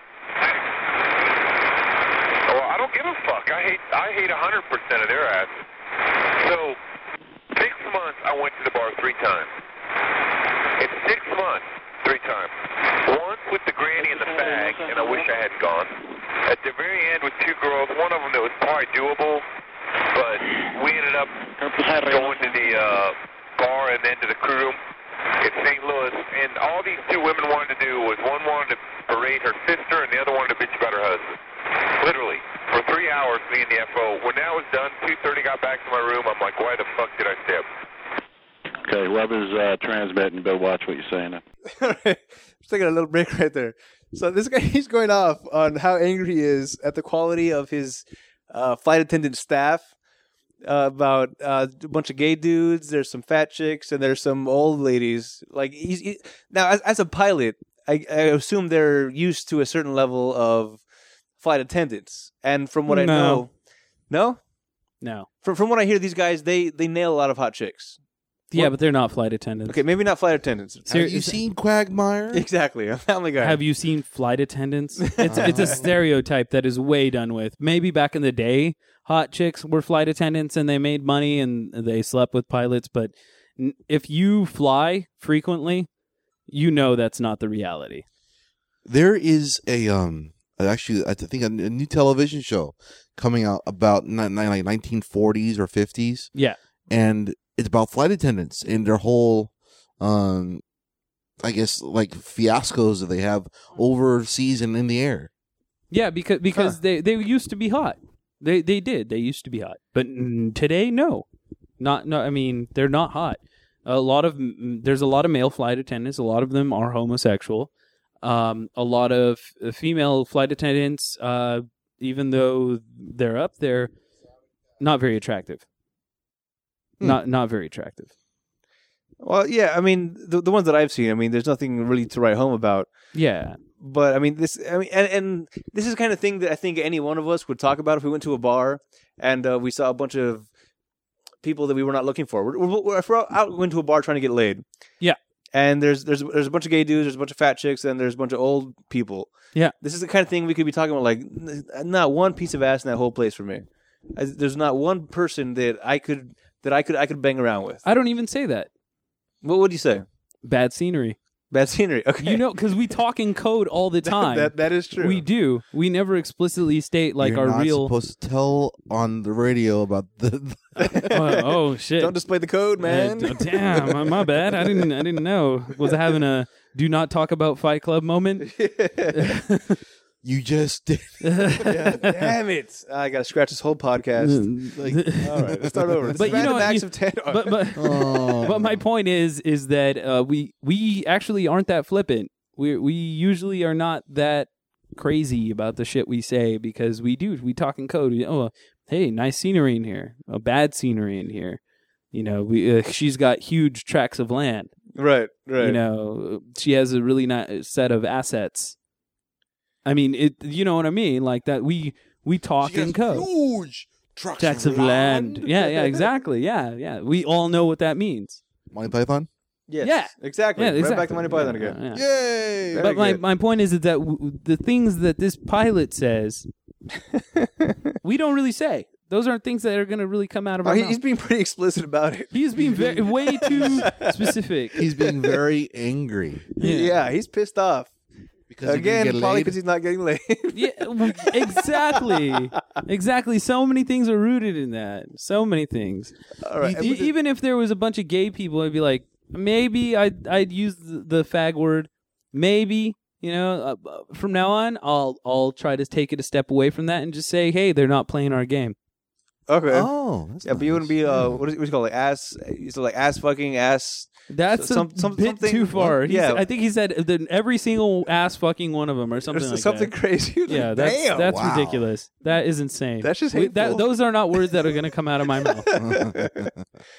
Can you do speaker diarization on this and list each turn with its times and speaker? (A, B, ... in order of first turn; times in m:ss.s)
0:02.5-0:05.6 A
0:06.4-0:06.8 A
0:07.5-0:09.5 A
0:10.8-0:12.5 A
0:13.0-0:19.4 A
0:14.0-0:15.3 B
0:20.1-0:21.4 A
0:21.6-0:22.8 B
0:22.0-0:24.8 A
0:25.4-0:31.4 A
0:32.0-0:37.6 A
0:38.8-0:41.4 B
0:41.7-0:49.9 C
0:50.6-1:00.8 C
1:01.4-1:03.5 C
1:02.9-1:03.4 D
1:04.1-1:04.4 C
1:05.0-1:05.3 D
1:05.4-1:08.0 C
1:08.5-1:09.8 D
1:09.7-1:10.9 C
1:10.9-1:11.4 D
1:10.9-1:12.5 E
1:12.3-1:13.6 C
1:13.4-1:25.9 D
1:15.0-1:15.8 C
1:15.3-1:15.9 E
1:26.5-1:28.0 D
1:28.8-1:36.3 E
1:36.9-1:40.6 E
1:41.4-1:45.3 E
1:45.9-1:51.2 D
1:51.8-1:57.7 D
1:58.2-2:03.9 D
2:04.8-2:05.6 D
2:07.0-2:08.1 D
2:09.2-2:12.9 C
2:13.1-2:13.6 D
2:13.8-2:20.5 C
2:21.4-2:24.6 C
2:25.5-2:37.8 C
2:37.8-2:38.7 D
2:39.4-2:40.1 C
2:40.4-2:41.2 D
2:41.5-2:42.4 C
2:42.2-2:47.9 D
2:44.0-2:45.2 C
2:47.2-2:51.1 E
2:50.8-2:51.5 C
2:51.1-2:52.2 D
2:52.0-2:54.3 C
2:52.8-2:58.5 D
2:58.4-2:59.3 C
2:59.1-2:59.8 D
3:00.2-3:02.0 E
3:01.2-3:02.1 D
3:01.7-3:04.5 C
3:04.2-3:05.4 D
3:04.8-3:06.6 E
3:05.2-3:07.6 C
3:06.2-3:21.6 D
3:07.8-3:08.8 E
3:22.1-3:24.7 D
3:25.0-3:25.8 C
3:25.6-3:28.8 D
3:29.9-3:33.3 D
3:32.6-3:36.1 E
3:34.4-3:38.4 D
3:38.7-3:39.3 E
3:39.7-3:41.8 C
3:39.8-3:42.0 D
3:41.9-3:42.9 E
3:42.7-3:43.2 C
3:42.8-3:46.5 D
3:47.2-3:47.8 C
3:48.0-3:51.0 D
3:50.6-3:54.2 C
3:52.3-3:54.8 D
3:53.5-3:53.9 E
3:54.8-3:55.4 C
3:54.8-3:56.5 E
3:56.6-3:57.9 C
3:56.6-3:56.9 D
3:58.5-3:59.6 E
3:58.6-4:02.4 C
4:00.5-4:06.1 D
4:06.4-4:07.1 C
4:06.6-4:07.0 E
4:06.6-4:18.8 D
4:19.5-4:19.9 C
4:19.7-4:21.4 E
4:20.4-4:26.4 C
4:24.3-4:29.9 D
4:29.3-4:31.3 C
4:30.5-4:35.7 D
4:31.2-4:31.9 E
4:33.0-4:34.8 C
4:35.4-4:36.5 C
4:35.8-4:36.6 E